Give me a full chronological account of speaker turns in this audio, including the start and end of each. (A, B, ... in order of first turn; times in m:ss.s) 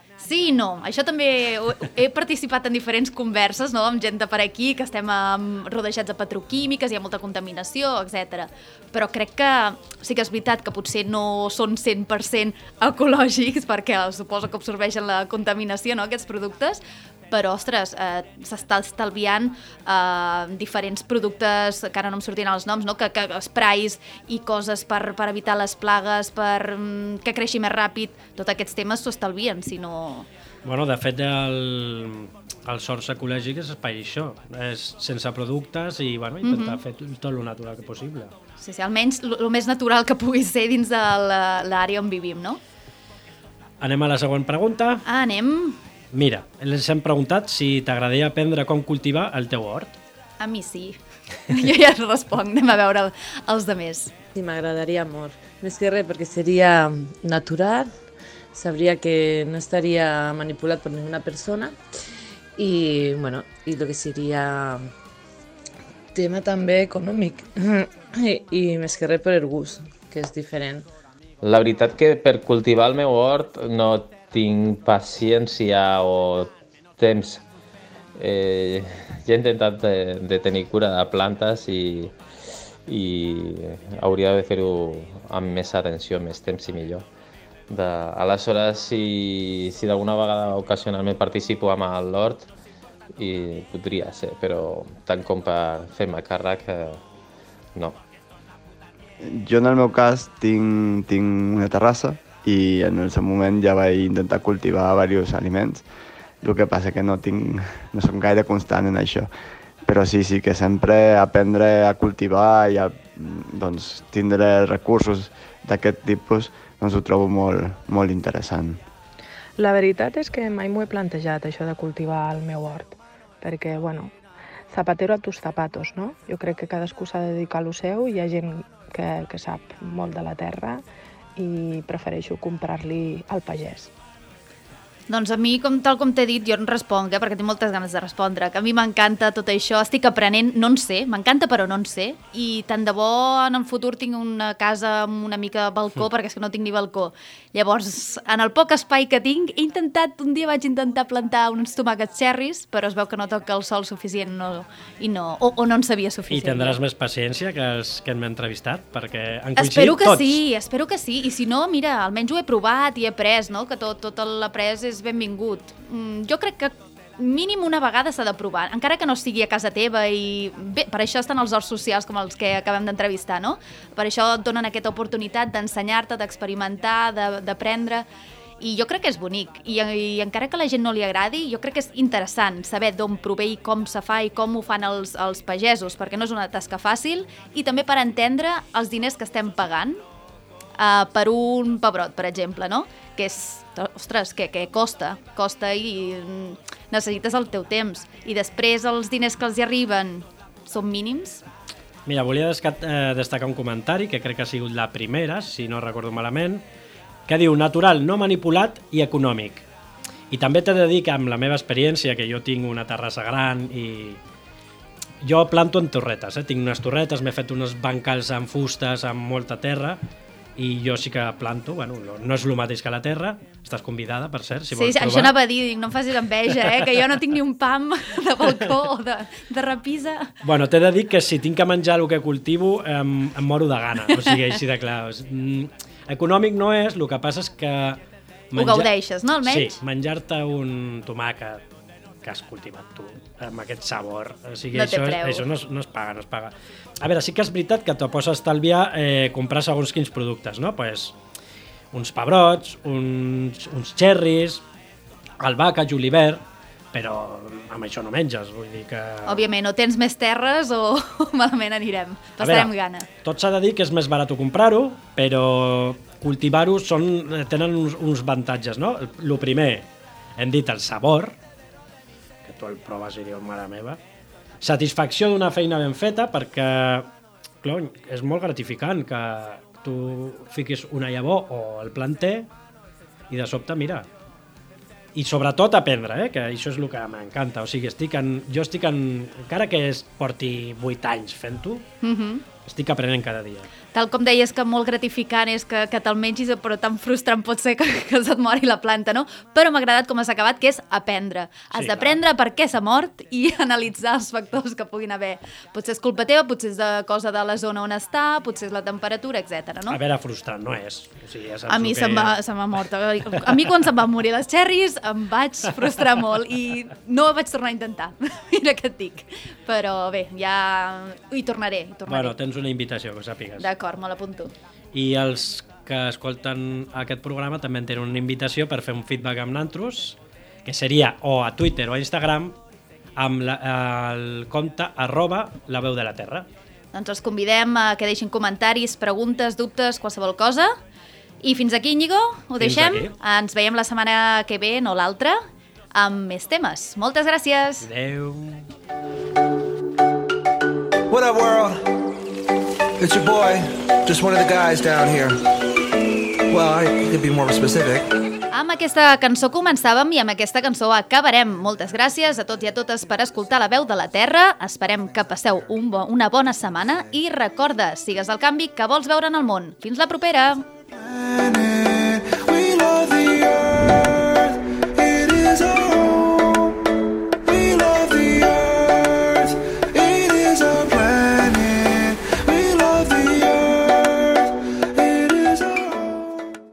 0:00.2-0:30.3 A
0:30.6-0:38.3 B
0:36.4-0:36.8 A
0:38.6-0:42.6 A
0:43.8-0:45.0 B
0:45.0-0:45.8 A
0:46.1-0:49.9 B
0:50.4-0:54.1 A
0:54.3-1:01.8 C
1:02.6-1:04.9 C
1:06.1-1:10.9 C
1:11.4-1:17.4 D
1:18.2-1:22.1 D
1:22.9-1:27.0 D
1:27.7-1:32.5 D
1:33.2-1:37.0 D
1:39.2-1:45.9 E
1:46.4-1:49.3 E
1:49.8-1:58.8 E
1:59.6-2:04.1 F
2:04.7-2:10.8 F
2:11.4-2:13.9 F
2:15.1-2:36.8 A
2:36.3-2:40.4 B
2:39.6-2:58.1 A
2:58.6-3:10.0 A
3:10.8-3:21.4 A
3:22.1-3:26.6 B
3:27.3-3:29.6 B
3:30.3-3:34.2 B
3:35.2-3:40.0 B
3:40.6-3:45.4 B
3:44.7-3:50.3 A
3:50.4-3:58.0 B
3:58.5-3:58.9 B
3:58.6-3:59.8 A
3:59.4-4:01.6 B
4:02.2-4:11.1 B
4:04.7-4:05.5 A
4:11.9-4:14.6 B
4:15.4-4:19.4 B
4:19.3-4:23.1 A
4:22.4-4:31.4 B
4:32.4-4:34.0 B
4:34.6-4:37.1 B
4:37.6-4:42.5 B
4:43.3-4:44.1 B
4:45.1-4:51.9 B
4:52.0-4:52.4 A
4:52.6-4:53.7 B
4:53.9-5:10.0 A
5:01.7-5:02.2 B
5:09.9-5:12.4 B
5:11.7-5:22.4 A
5:13.3-5:13.6 B
5:22.1-5:23.7 B
5:23.6-5:24.5 A
5:24.9-5:32.6 B
5:33.2-5:36.5 B
5:36.9-5:40.8 A
5:41.4-5:45.4 A
5:42.6-5:43.2 B
5:45.9-5:47.9 A
5:47.8-5:48.7 B
5:51.1-5:51.9 G
5:53.0-5:55.4 G
5:56.5-5:58.1 G
5:58.5-6:10.6 A
6:10.9-6:16.8 G
6:17.4-6:26.4 G